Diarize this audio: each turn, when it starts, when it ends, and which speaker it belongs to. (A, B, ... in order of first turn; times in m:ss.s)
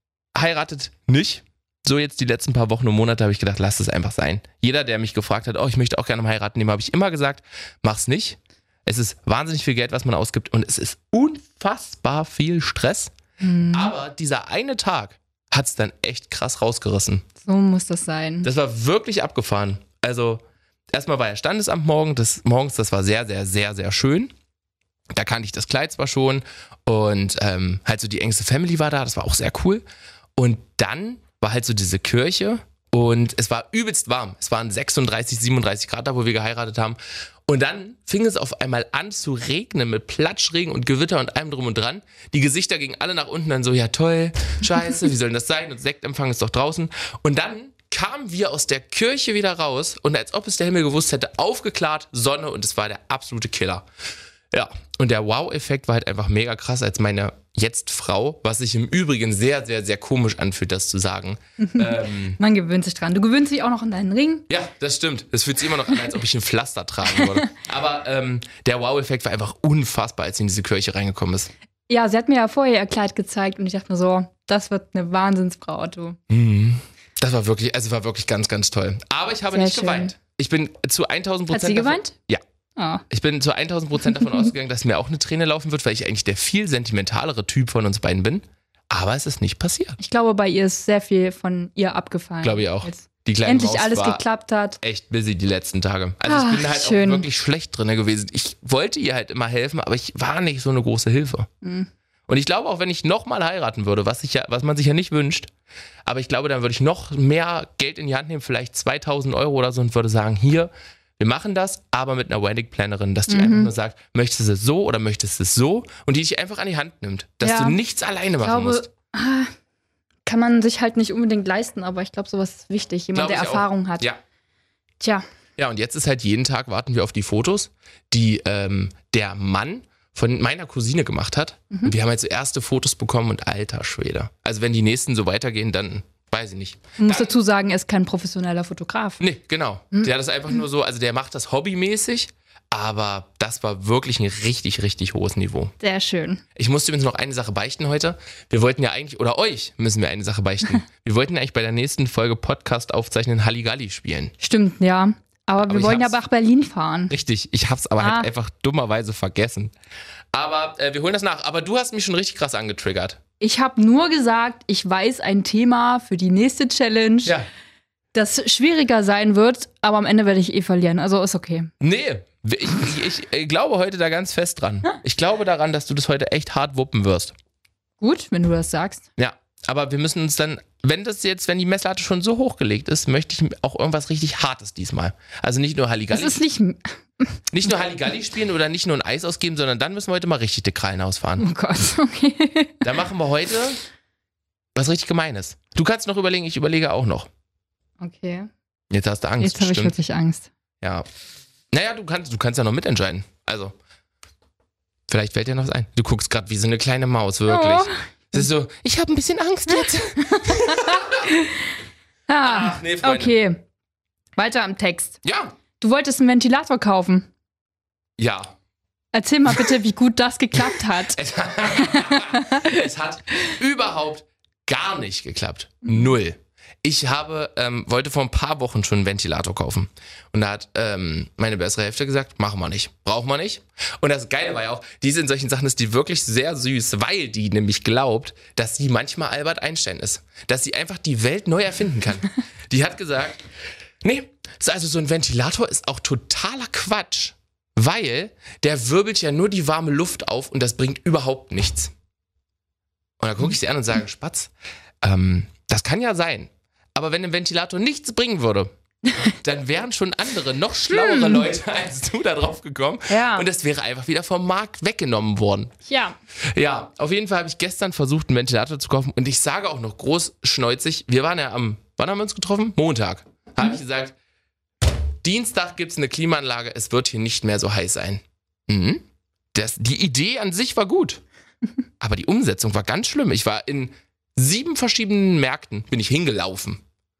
0:00.3-0:13.1 A
0:13.4-0:13.9 B
0:13.7-0:17.3 A
0:17.4-0:18.5 B
0:18.4-0:24.3 A
0:25.1-0:29.8 A
0:30.4-0:53.8 A
0:54.5-1:02.4 A
1:01.6-1:04.4 B
1:04.5-1:11.5 A
1:07.1-1:07.4 B
1:11.9-1:16.2 B
1:16.3-1:22.4 A
1:19.5-1:20.1 B
1:21.5-1:22.1 B
1:22.8-1:23.0 B
1:23.1-1:30.0 A
1:24.1-1:24.4 B
1:30.0-1:34.8 B
1:32.4-1:34.2 A
1:34.8-1:41.5 A
1:36.2-1:37.3 B
1:41.6-1:41.9 B
1:42.3-1:45.5 A
1:46.0-1:58.9 A
1:53.3-1:53.7 B
1:57.4-1:57.8 B
1:58.4-1:59.5 B
2:00.2-2:04.0 B
2:03.1-2:04.2 A
2:05.0-2:05.2 B
2:05.6-2:17.3 A
2:17.0-2:19.2 B
2:19.2-2:25.7 A
2:25.8-2:26.4 B
2:26.6-2:34.3 A
2:34.4-2:37.1 B
2:35.6-2:36.1 A
2:37.1-2:39.7 A
2:38.0-2:38.3 B
2:40.3-2:43.2 A
2:43.4-2:47.4 B
2:48.1-2:51.7 B
2:51.8-2:57.3 A
2:58.0-2:59.0 B
2:59.2-3:06.4 A
3:06.1-3:07.4 B
3:07.5-3:11.5 A
3:11.4-3:12.8 B
3:12.8-3:13.8 A
3:14.8-3:17.3 A
3:18.0-3:18.5 B
3:18.9-3:19.9 A
3:19.4-3:20.5 B
3:21.7-3:23.7 A
3:25.1-3:31.3 A
3:27.5-3:28.4 B
3:30.3-3:31.7 B
3:32.3-3:33.6 B
3:32.4-3:33.3 A
3:34.4-3:35.2 B
3:35.2-3:35.5 A
3:35.8-3:37.3 B
3:38.2-3:38.5 A
3:39.1-3:41.2 B
3:40.8-4:03.4 A
3:41.7-3:42.8 B
4:04.0-4:11.9 A
4:13.2-4:14.5 A
4:15.0-4:18.7 A
4:19.2-4:25.7 A
4:20.9-4:21.4 B
4:23.1-4:23.4 B
4:25.9-4:26.2 B
4:26.5-4:34.2 A
4:35.2-4:41.2 A
4:42.0-4:46.8 A